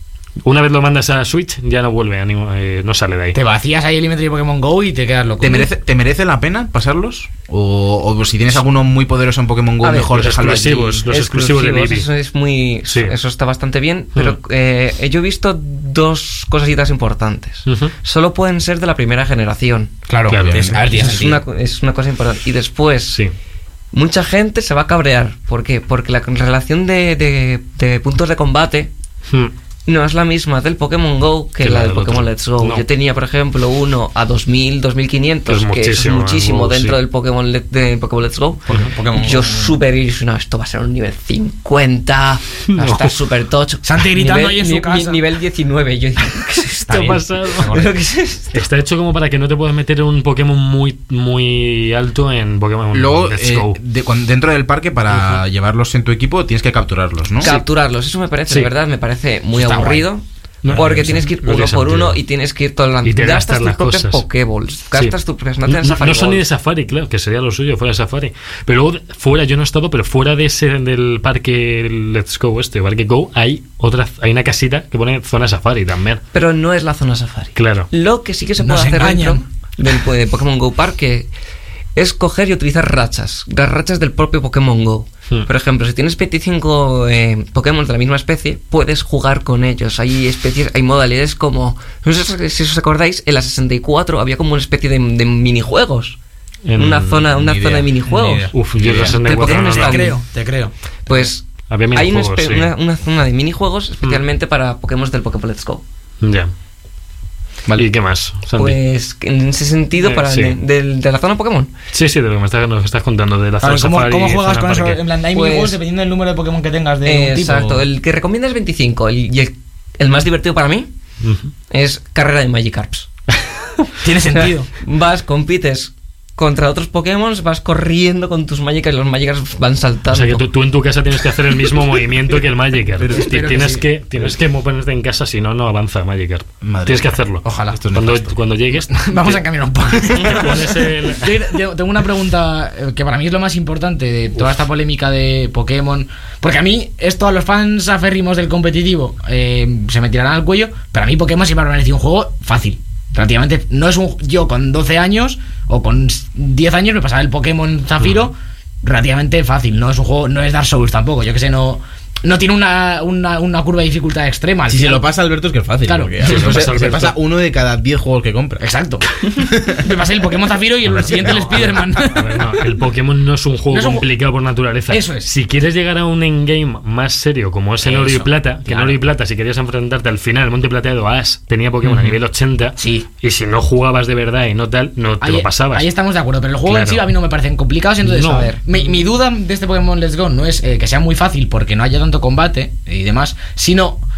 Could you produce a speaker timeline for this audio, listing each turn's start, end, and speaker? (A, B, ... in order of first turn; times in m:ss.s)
0:00.4-0:03.4 A
0:03.3-0:05.7 B
0:05.4-0:11.1 C
0:09.8-0:10.5 D
0:10.1-0:12.1 A
0:11.1-0:19.9 D
0:12.9-0:13.2 A
0:17.7-0:17.9 A
0:20.1-0:21.4 B
0:20.3-0:20.8 A
0:20.4-0:21.2 C
0:20.8-0:23.2 D
0:23.9-0:28.9 D
0:29.3-0:29.5 A
0:29.9-0:48.6 D
0:31.6-0:32.8 A
0:35.5-0:37.0 A
0:38.7-0:39.8 B
0:42.7-0:43.2 A
0:43.8-0:45.2 B
0:46.9-0:48.0 B
0:46.9-0:47.7 A
0:48.5-0:53.8 A
0:52.9-0:57.5 C
0:57.4-1:06.4 D
0:59.6-1:00.1 B
1:00.6-1:02.2 A
1:03.0-1:04.2 A
1:05.7-1:16.2 A
1:16.3-1:21.3 D
1:17.6-1:17.9 A
1:18.6-1:19.4 B
1:22.0-1:36.2 D
1:36.7-1:37.3 A
1:36.8-1:40.2 D
1:37.4-1:39.2 C
1:38.2-1:38.5 B
1:38.5-1:40.2 A
1:39.4-1:41.3 B
1:41.1-1:45.8 D
1:41.7-1:42.7 A
1:46.2-1:46.5 A
1:47.8-1:48.8 A
1:48.6-1:51.7 D
1:50.0-1:50.6 A
1:51.9-1:55.0 A
1:53.6-1:57.8 B
1:55.3-1:55.8 D
1:57.0-2:00.9 D
2:01.2-2:01.5 A
2:01.7-2:03.1 D
2:04.0-2:04.7 B
2:04.3-2:10.4 D
2:10.1-2:19.4 A
2:13.0-2:13.3 C
2:13.0-2:13.8 B
2:16.6-2:17.1 C
2:17.4-2:17.8 B
2:17.7-2:18.4 C
2:18.9-2:45.1 B
2:20.1-2:21.5 A
2:44.7-2:48.6 C
2:45.9-2:46.7 B
2:46.2-2:47.1 A
2:48.6-2:52.4 B
2:49.4-2:49.9 C
2:50.8-3:05.9 A
2:51.1-2:52.0 C
2:53.7-2:54.0 B
2:54.9-2:55.3 B
2:57.8-2:59.0 B
3:01.8-3:02.1 B
3:02.8-3:03.1 B
3:05.2-3:14.0 B
3:06.6-3:07.1 A
3:08.0-3:08.9 A